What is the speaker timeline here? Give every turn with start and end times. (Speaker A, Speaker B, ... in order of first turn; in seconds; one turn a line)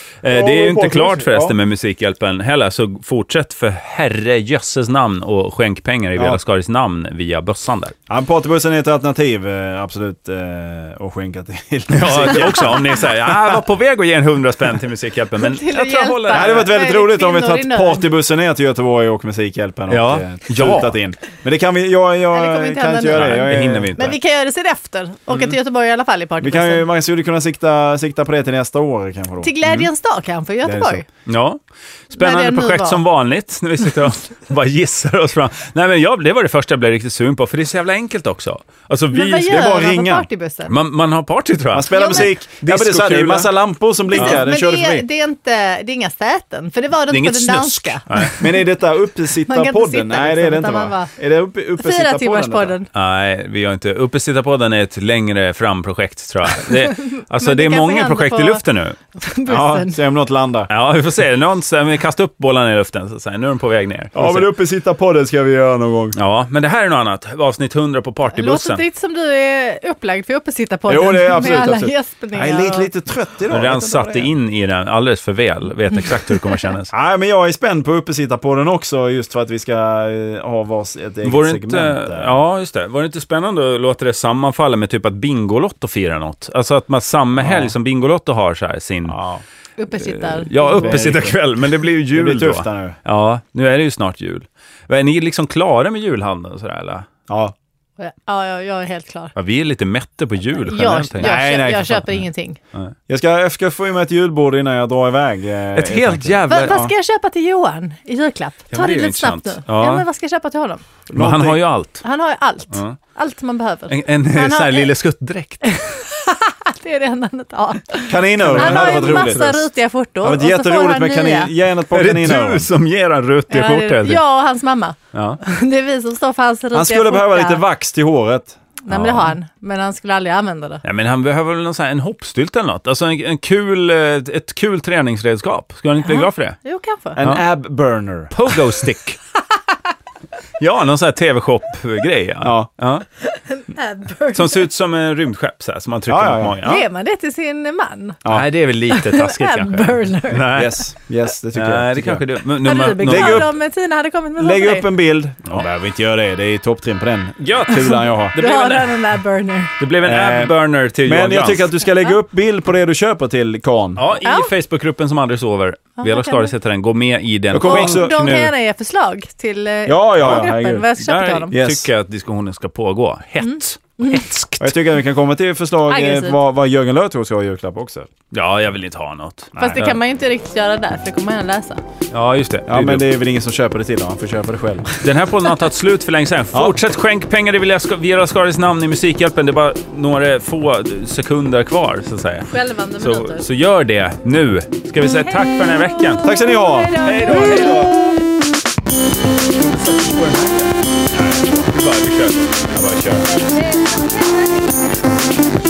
Speaker A: 0.2-8.0
Speaker B: 0.3-1.6
Speaker B: 8.1-13.6
Speaker A: 11.9-16.7
Speaker C: 15.4-18.1
Speaker B: 16.3-24.1
Speaker A: 19.9-21.0
Speaker C: 22.3-26.9
Speaker A: 23.1-24.2
Speaker B: 26.4-29.5
Speaker C: 29.4-31.1
Speaker B: 30.6-31.0
Speaker A: 31.3-39.6
Speaker C: 32.2-33.0
Speaker C: 39.1-40.8
Speaker B: 39.4-40.3
Speaker A: 40.7-43.5
Speaker B: 41.7-45.0
Speaker C: 41.9-42.3
Speaker C: 44.1-48.6
Speaker A: 44.2-44.4
Speaker A: 47.1-48.4
Speaker B: 48.4-52.8
Speaker C: 49.4-51.1
Speaker C: 51.8-52.9
Speaker A: 52.9-59.0
Speaker C: 56.6-58.6
Speaker C: 59.1-60.0
Speaker B: 59.5-60.7
Speaker A: 60.7-64.5
Speaker B: 64.2-66.2
Speaker A: 66.2-68.8
Speaker C: 68.3-72.9
Speaker B: 70.9-74.3
Speaker A: 73.5-76.9
Speaker B: 76.9-82.4
Speaker A: 81.2-89.2
Speaker B: 87.4-87.7
Speaker B: 89.1-89.4
Speaker C: 89.8-91.1
Speaker A: 90.0-97.1
Speaker B: 90.7-91.4
Speaker B: 92.1-93.0
Speaker B: 97.3-97.5
Speaker C: 98.0-99.3
Speaker A: 99.3-101.4
Speaker C: 100.6-102.6
Speaker B: 101.2-102.2
Speaker B: 103.1-106.9
Speaker A: 105.8-106.8
Speaker C: 106.5-110.8
Speaker A: 108.7-110.0
Speaker A: 111.1-112.0
Speaker B: 111.1-111.6
Speaker C: 112.0-114.9
Speaker A: 112.7-113.0
Speaker A: 113.9-115.8
Speaker C: 115.6-121.5
Speaker B: 118.1-119.5
Speaker A: 118.4-119.6
Speaker B: 120.2-122.7
Speaker A: 121.9-124.2
Speaker C: 123.5-127.6
Speaker A: 125.1-125.4
Speaker B: 126.7-128.6
Speaker C: 128.8-130.8
Speaker A: 128.9-129.3
Speaker A: 130.8-136.6
Speaker C: 136.0-137.2
Speaker B: 137.2-138.3
Speaker A: 138.3-139.2
Speaker A: 140.6-143.1
Speaker B: 142.4-142.7
Speaker C: 143.2-144.7
Speaker A: 144.3-146.8
Speaker B: 146.1-146.6
Speaker C: 146.6-148.2
Speaker A: 148.3-150.9
Speaker C: 148.9-150.5
Speaker B: 150.5-152.2
Speaker A: 151.5-153.5
Speaker C: 152.6-154.9
Speaker B: 153.0-153.5
Speaker B: 154.4-158.3
Speaker A: 157.4-159.1
Speaker C: 157.7-159.8
Speaker A: 159.8-161.7
Speaker B: 160.0-160.5
Speaker B: 161.1-164.0
Speaker A: 164.0-168.5
Speaker C: 164.2-164.5
Speaker C: 166.0-166.5
Speaker B: 167.5-168.3
Speaker C: 167.6-171.6
Speaker B: 169.9-170.9
Speaker A: 171.0-174.7
Speaker B: 171.5-171.9
Speaker C: 173.4-174.3
Speaker B: 174.6-178.1
Speaker C: 175.9-176.4
Speaker A: 178.3-180.0
Speaker B: 179.6-179.8
Speaker C: 179.6-181.8
Speaker A: 182.1-183.0
Speaker B: 182.7-185.0
Speaker A: 185.0-196.2
Speaker C: 192.5-193.5
Speaker C: 195.0-198.1
Speaker B: 196.2-197.0
Speaker A: 196.9-198.0
Speaker A: 199.6-200.7
Speaker B: 201.1-201.7
Speaker A: 201.7-202.8
Speaker B: 202.7-203.3
Speaker C: 203.3-204.7